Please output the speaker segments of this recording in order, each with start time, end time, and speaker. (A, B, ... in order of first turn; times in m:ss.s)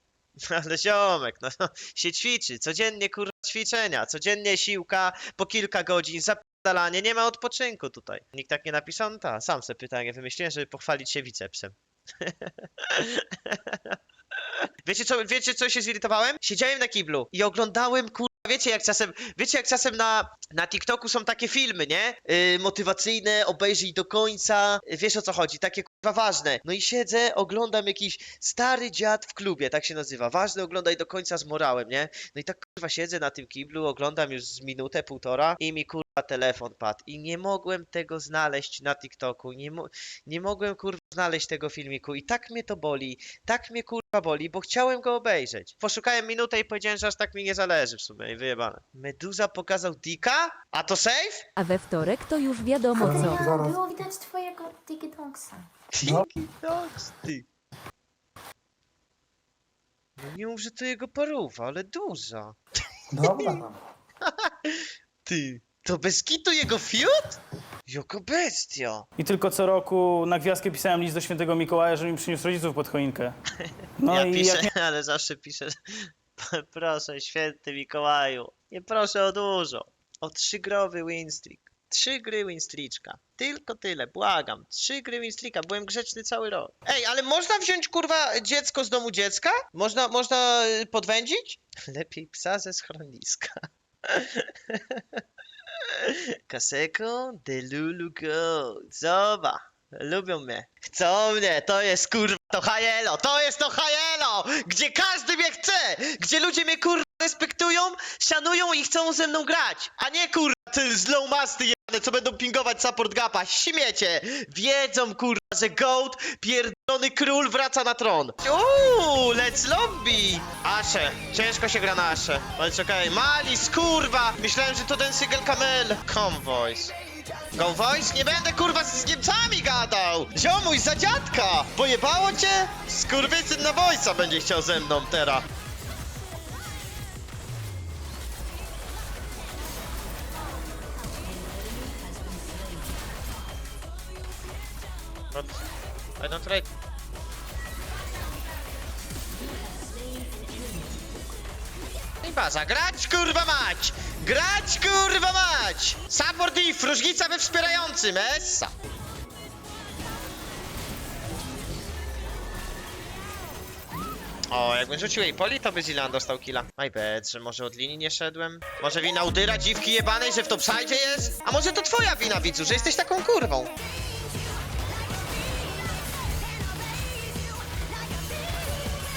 0:00.5-0:14.0 A
0:14.8-0:51.4 A
0:51.6-0:53.6 B
0:53.5-0:55.5 C
0:55.9-0:57.4 A
1:00.2-1:02.6 A
1:03.1-1:03.7 A
1:04.2-1:09.0 A
1:09.2-1:13.3 D
1:13.6-1:35.2 A
1:14.0-1:14.7 D
1:35.9-2:06.9 A
2:07.5-2:15.4 A
2:25.3-2:25.6 A
2:26.2-2:26.7 A
2:32.2-2:38.7 A
2:44.5-2:53.7 A